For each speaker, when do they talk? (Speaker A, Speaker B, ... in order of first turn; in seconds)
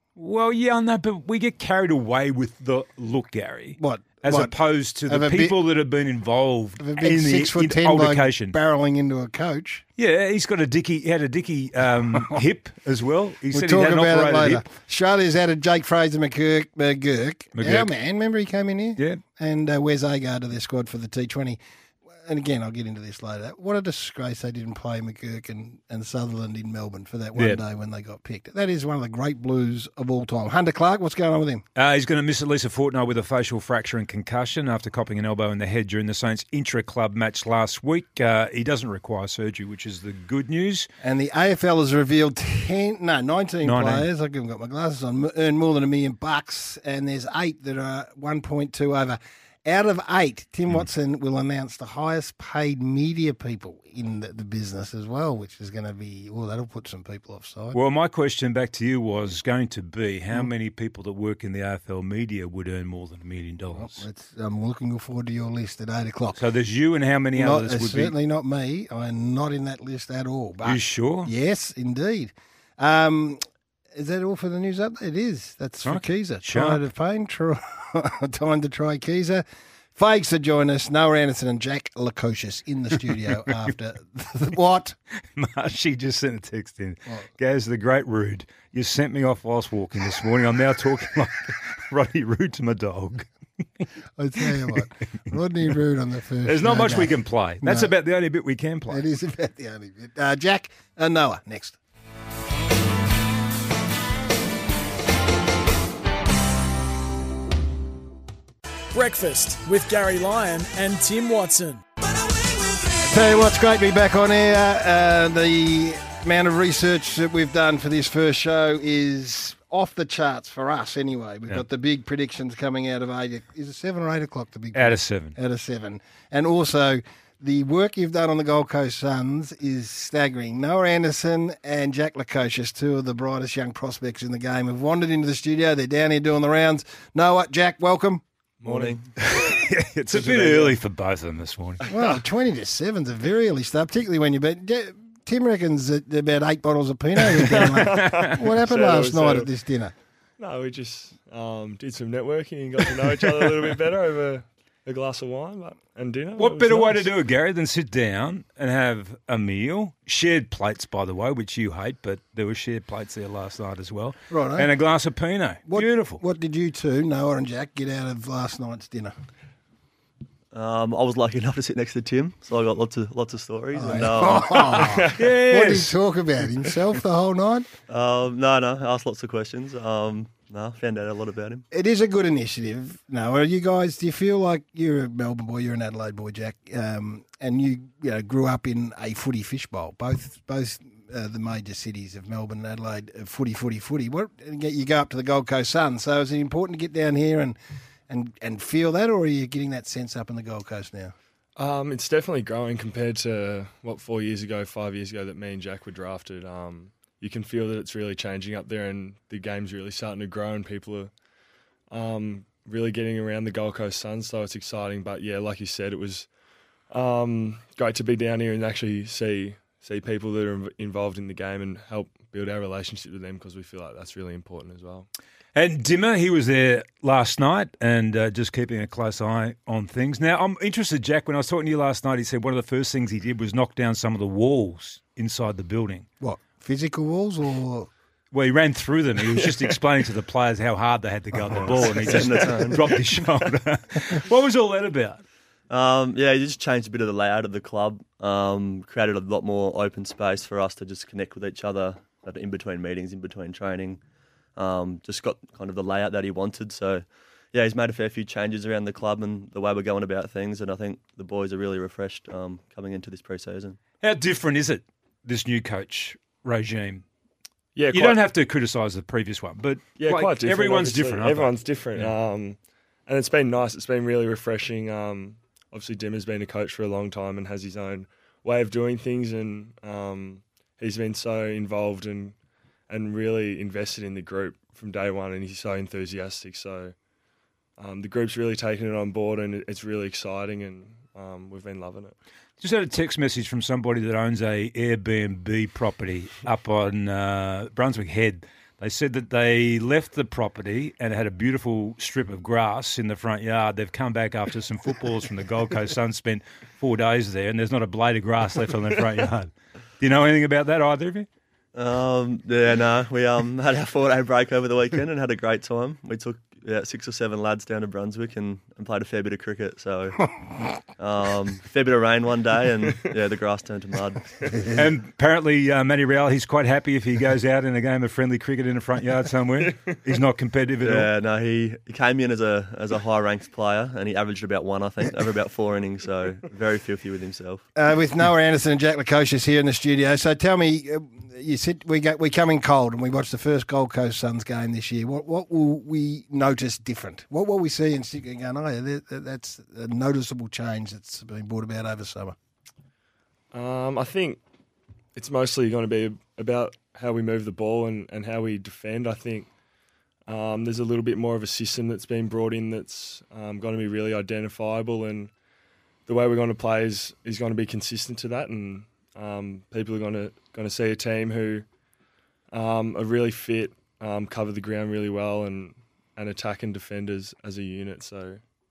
Speaker A: 0.1-8.6, 10.0-14.6, 17.6-17.9, 27.3-27.6, 31.8-40.9, 43.6-44.1, 57.7-64.0, 66.3-68.1, 70.6-71.3, 75.8-76.8, 85.3-93.2, 96.4-99.0, 124.7-125.3, 138.7-141.8, 147.5-148.3, 156.3-166.2, 175.0-175.9, 225.5-236.1, 238.3-245.2, 264.0-267.0, 267.9-272.1, 292.6-311.3, 324.7-331.1
Speaker B: 3.8-4.5, 5.1-5.6, 6.8-9.8, 13.5-21.6, 22.2-31.6, 41.0-57.8, 63.7-66.4, 67.3-73.4, 73.9-85.0, 94.2-97.9, 98.9-101.8, 113.0-138.2, 141.9-149.9, 164.3-164.7, 165.7-169.1, 173.7-177.7, 181.7-197.6, 198.1-201.1, 236.2-237.9, 337.7-352.4
Speaker C: 108.9-111.8
Speaker D: 138.6-139.0, 170.5-174.9, 177.9-181.6, 241.7-242.9, 245.7-254.0, 254.6-263.8, 311.7-320.2, 321.0-324.4, 330.8-337.6
Speaker E: 141.9-142.2, 147.5-149.5, 150.4-157.1, 201.6-211.1, 211.9-216.3, 216.9-225.1, 239.4-239.7, 242.0-242.3, 267.7-268.2, 270.0-282.3, 282.9-286.9, 287.8-292.1, 353.5-354.4, 355.1-359.5, 360.3-365.3, 366.1-371.6, 372.5-378.4